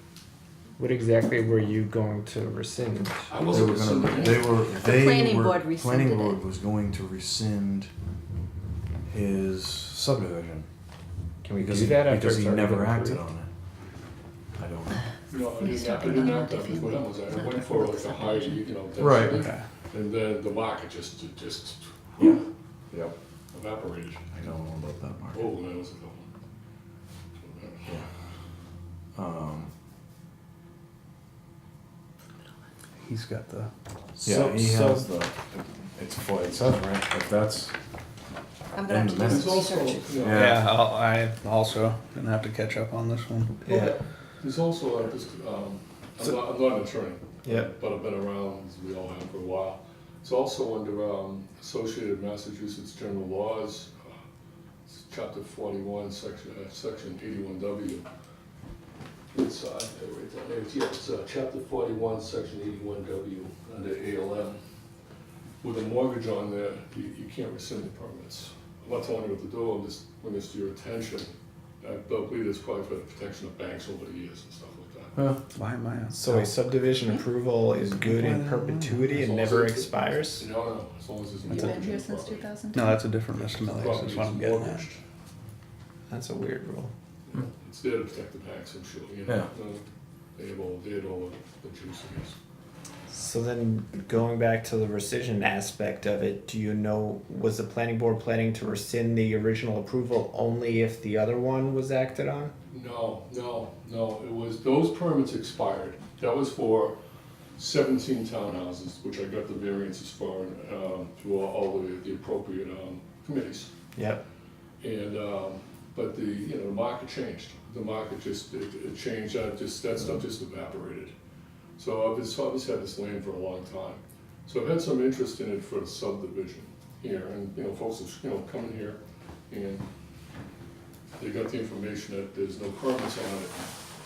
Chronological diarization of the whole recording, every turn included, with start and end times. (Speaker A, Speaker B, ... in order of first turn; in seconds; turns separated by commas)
Speaker A: 0.8-3.4, Speaker B: 3.3-4.7, Speaker C: 3.5-7.9, Speaker D: 4.1-6.4, Speaker C: 9.1-10.7, Speaker A: 11.4-13.2, Speaker C: 11.6-13.5, Speaker C: 14.6-15.0, Speaker B: 15.3-22.5, Speaker D: 15.6-18.6, Speaker C: 19.0-19.4, Speaker E: 19.3-19.6, Speaker B: 23.5-24.2, Speaker C: 24.3-25.5, Speaker B: 25.3-26.3, Speaker B: 27.4-27.9, Speaker C: 29.1-29.7, Speaker E: 33.0-33.7, Speaker A: 34.2-35.1, Speaker C: 34.2-37.7, Speaker D: 38.7-40.3, Speaker C: 38.9-40.6, Speaker B: 39.2-40.5, Speaker E: 40.3-43.7, Speaker B: 43.7-53.9, Speaker A: 47.4-47.7, Speaker B: 54.9-58.1, Speaker B: 59.3-64.6, Speaker B: 65.6-75.2, Speaker E: 75.5-76.5, Speaker A: 76.1-80.5, Speaker E: 77.9-79.1, Speaker B: 79.1-82.5, Speaker D: 81.5-83.0, Speaker E: 82.7-84.8, Speaker B: 83.5-85.0, Speaker A: 86.1-86.9, Speaker B: 87.3-89.8, Speaker B: 90.4-92.4, Speaker A: 93.1-102.5, Speaker B: 102.7-107.0, Speaker B: 107.6-113.7, Speaker A: 114.0-114.2, Speaker B: 114.8-121.1, Speaker B: 121.8-129.9, Speaker B: 131.2-133.7